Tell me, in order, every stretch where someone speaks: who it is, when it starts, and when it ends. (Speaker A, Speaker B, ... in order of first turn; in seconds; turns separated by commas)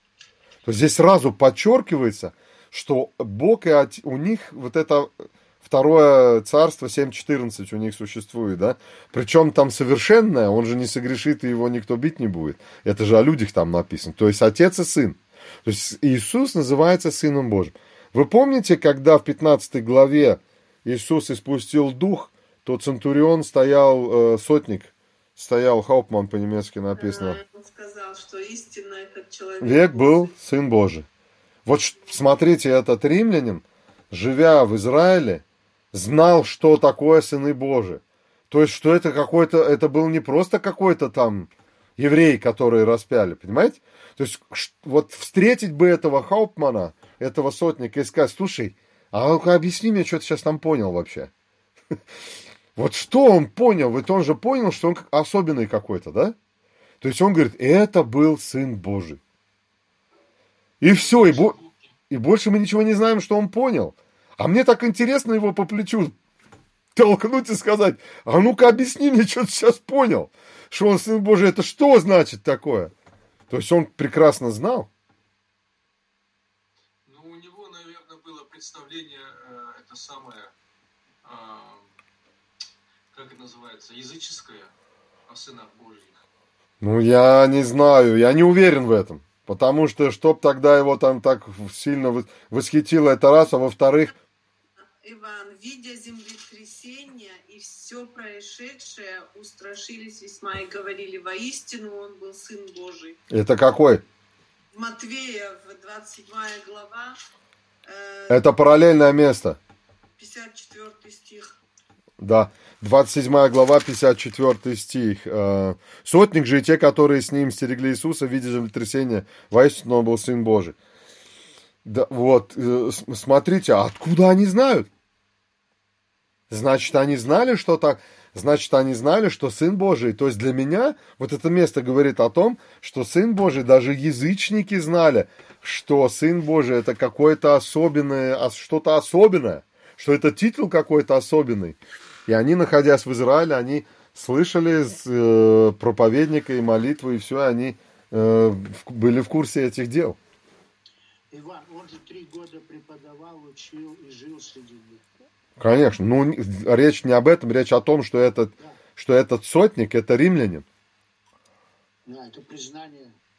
Speaker A: 0.7-27.4, Speaker B: 27.0-30.3, Speaker A: 29.6-31.1, Speaker A: 31.7-51.3, Speaker A: 52.8-56.4, Speaker A: 57.0-59.2, Speaker A: 60.8-61.6, Speaker C: 60.9-61.9, Speaker A: 62.1-66.2, Speaker A: 67.0-72.9, Speaker A: 73.5-74.9, Speaker C: 77.0-80.5, Speaker C: 81.2-81.9, Speaker C: 83.1-84.7, Speaker C: 85.3-86.2, Speaker A: 86.8-94.1, Speaker B: 95.0-103.2, Speaker A: 103.3-104.0, Speaker B: 104.7-107.2, Speaker B: 107.9-108.5, Speaker A: 108.3-109.6, Speaker B: 110.2-111.5, Speaker A: 112.2-120.8, Speaker A: 121.8-124.9, Speaker A: 126.5-150.2, Speaker D: 151.3-155.1, Speaker A: 155.6-160.7, Speaker D: 162.1-163.2